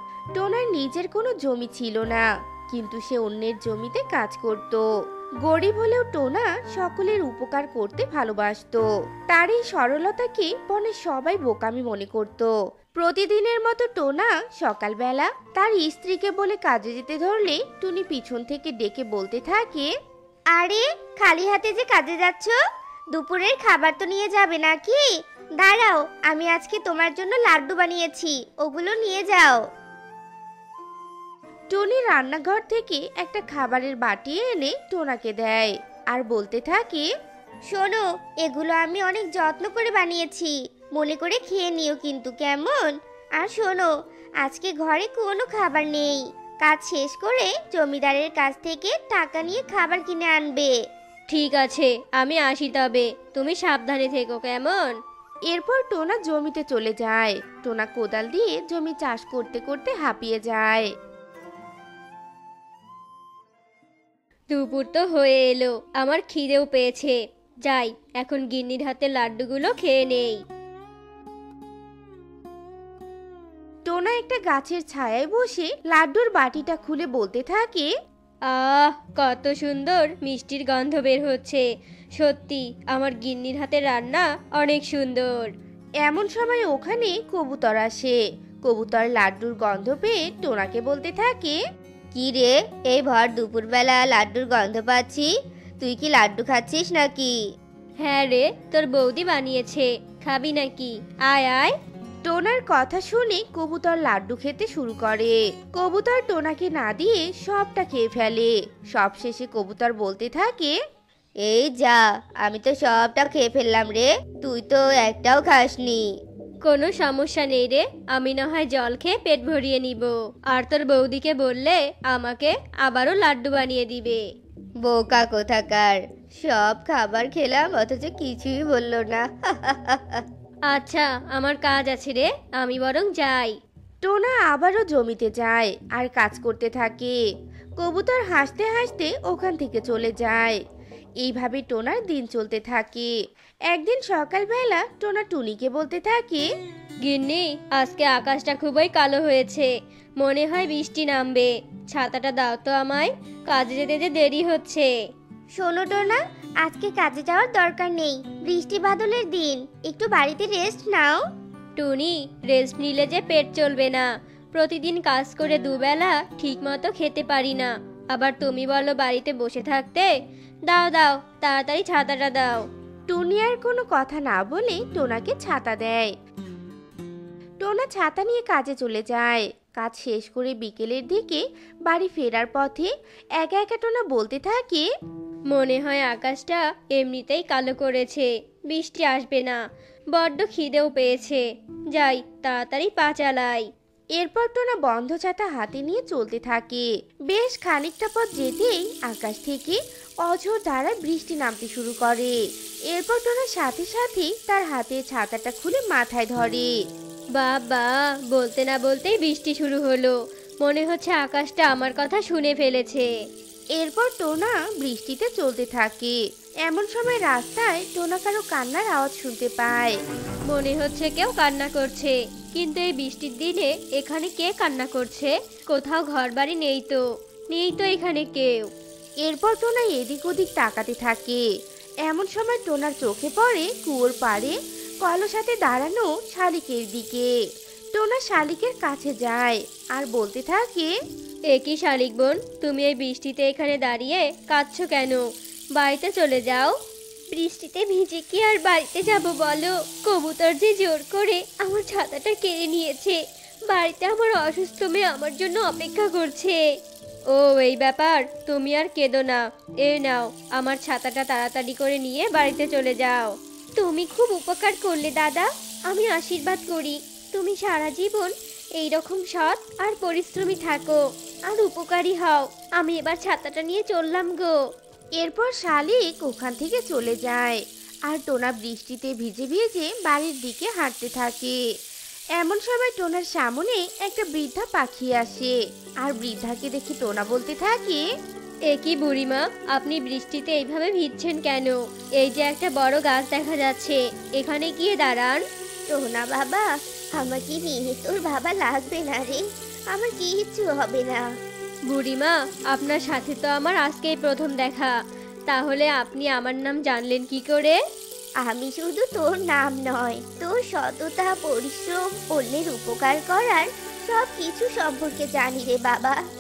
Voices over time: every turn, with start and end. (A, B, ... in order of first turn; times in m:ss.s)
0:00.4-0:04.8 A
0:05.4-0:19.9 A
0:20.6-0:22.6 B
0:23.1-0:29.6 B
0:31.7-0:37.1 A
0:37.7-0:42.7 B
0:42.3-0:42.9 A
0:43.5-0:43.9 B
0:44.4-0:50.7 B
0:47.9-0:48.6 A
0:50.2-0:50.6 A
0:51.3-0:55.0 C
0:55.5-1:00.9 A
1:04.5-1:10.4 C
1:13.9-1:17.9 A
1:18.5-1:21.6 C
1:22.2-1:25.5 C
1:26.0-1:31.6 A
1:32.1-1:37.3 B
1:38.0-1:41.7 C
1:42.2-1:50.8 A
1:51.4-1:56.0 B
1:56.6-2:04.2 C
2:04.8-2:10.2 B
2:10.7-2:13.6 C
2:14.0-2:17.2 A
2:17.8-2:20.6 A
2:21.2-2:23.1 A
2:23.7-2:26.5 A
2:27.0-2:34.9 C
2:35.6-2:41.2 B
2:35.7-2:36.2 A
2:37.2-2:37.8 A
2:41.8-2:50.1 C
2:50.7-2:52.6 C
2:53.1-2:56.1 A
2:57.6-3:04.9 A
3:05.5-3:09.6 C
3:10.1-3:13.7 C
3:14.2-3:22.4 A
3:22.9-3:26.7 A
3:27.3-3:33.1 C
3:33.8-3:40.0 A
3:40.5-3:48.7 C
3:49.2-3:51.4 A
3:52.1-3:57.3 A
3:58.0-4:00.9 A
4:01.5-4:05.2 C
4:05.8-4:06.7 C
4:07.3-4:16.6 C
4:17.3-4:34.6 C
4:35.2-4:41.6 A
4:42.4-4:48.0 A
4:48.7-4:55.4 C
4:55.9-4:56.7 B
4:57.2-5:01.3 B
5:01.9-5:04.9 C
5:05.5-5:07.8 C
5:08.4-5:16.2 B